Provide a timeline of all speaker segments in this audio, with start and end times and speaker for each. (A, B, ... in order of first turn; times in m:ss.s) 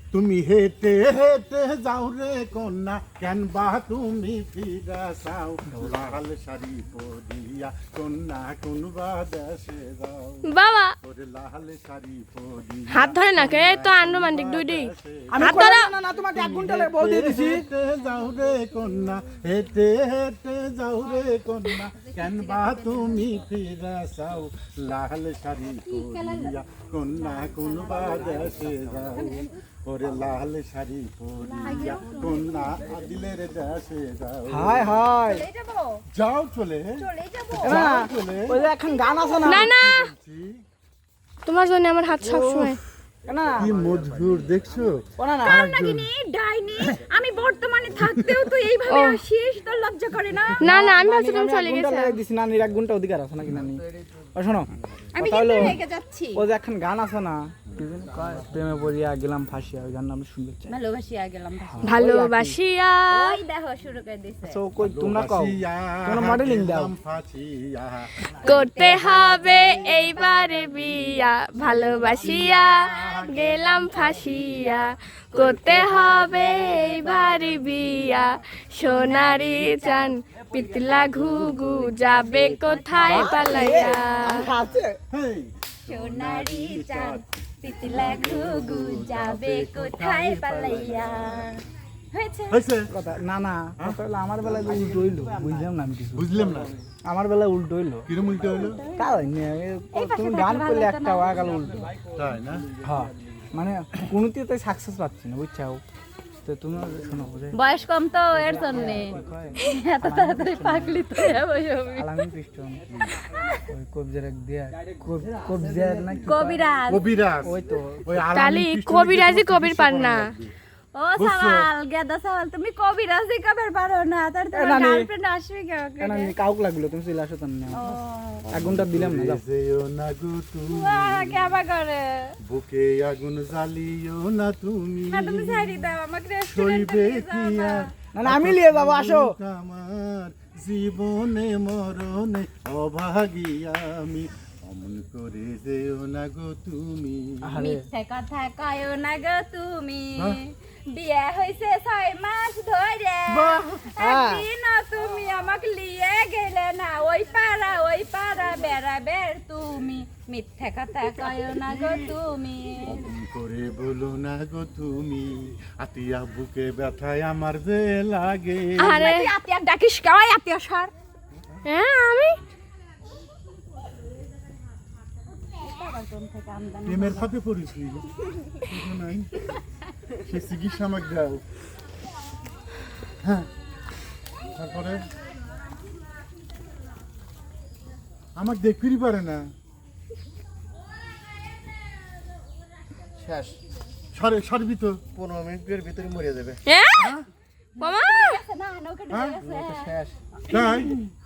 0:00.1-0:10.5 A
0:10.5-0:10.9 B
0:11.0-0:34.9 A
0:12.9-0:15.9 B
0:15.3-0:17.6 C
0:22.1-0:23.1 D
0:25.8-0:26.5 D
0:27.3-0:29.5 D
0:31.5-0:32.8 D
0:34.5-0:35.4 C
0:35.2-0:36.0 D
0:36.1-0:38.6 A
0:37.0-0:39.5 D
0:37.6-0:39.7 C
0:39.4-0:40.1 B
0:39.5-0:40.6 A
0:41.4-0:42.8 B
0:42.2-0:42.8 C
0:43.3-0:43.7 C
0:43.6-0:46.1 A
0:45.2-0:45.6 C
0:45.4-0:50.9 D
0:48.0-0:48.4 A
0:48.9-0:49.2 B
0:50.6-0:52.2 B
0:50.7-0:53.8 C
0:53.6-0:54.1 E
0:54.4-0:55.8 C
0:55.1-0:56.4 D
0:56.4-1:00.8 C
0:58.1-0:58.4 E
1:00.7-1:02.1 D
1:01.7-1:02.6 C
1:01.8-1:03.4 B
1:03.1-1:04.6 D
1:04.5-1:06.9 C
1:04.8-1:08.1 A
1:08.4-1:10.7 D
1:08.4-1:24.4 B
1:11.7-1:12.4 D
1:12.2-1:14.3 A
1:15.4-1:15.9 A
1:15.4-1:17.9 D
1:18.8-1:20.1 D
1:20.8-1:21.4 E
1:22.0-1:24.5 D
1:23.0-1:25.0 C
1:25.1-1:31.5 A
1:25.8-1:31.5 D
1:32.1-1:32.6 D
1:32.5-1:32.9 A
1:32.9-1:36.3 C
1:33.8-1:35.0 A
1:36.1-1:36.7 A
1:37.0-1:38.1 C
1:38.1-1:38.8 A
1:38.4-1:39.1 D
1:39.0-1:41.9 C
1:39.9-1:41.8 D
1:42.1-1:42.7 A
1:42.8-1:45.8 C
1:46.4-1:47.6 C
1:47.5-1:52.2 D
1:48.4-1:51.2 C
1:52.0-1:52.8 C
1:53.3-1:53.6 D
1:53.7-1:56.6 C
1:55.7-1:56.1 E
1:56.2-1:57.0 D
1:56.9-2:00.5 A
1:57.4-1:58.2 C
1:58.3-2:00.2 B
2:00.9-2:06.3 D
2:01.2-2:01.7 A
2:04.5-2:05.1 C
2:06.0-2:07.8 C
2:07.7-2:08.5 D
2:08.5-2:11.5 A
2:08.5-2:09.4 C
2:10.7-2:12.4 D
2:12.5-2:15.9 A
2:15.1-2:17.9 D
2:16.5-2:27.4 A
2:18.1-2:19.3 C
2:27.4-2:27.8 C
2:27.6-2:43.0 D
2:34.0-2:34.5 C
2:42.8-2:49.1 A
2:48.8-2:50.9 D
2:48.8-2:49.4 B
2:51.7-2:52.4 B
2:55.6-2:57.3 D
2:56.8-2:58.1 A
2:58.6-2:59.3 A
3:00.2-3:01.4 A
3:03.2-3:03.5 A
3:04.5-3:05.0 A
3:08.4-3:09.5 A
3:13.2-3:13.6 E
3:14.1-3:15.0 A
3:15.1-3:16.6 E
3:16.7-3:17.1 B
3:17.0-3:17.2 A
3:17.8-3:19.9 D
3:17.8-3:18.4 B
3:19.1-3:19.4 A
3:19.4-3:20.1 E
3:20.5-3:21.0 A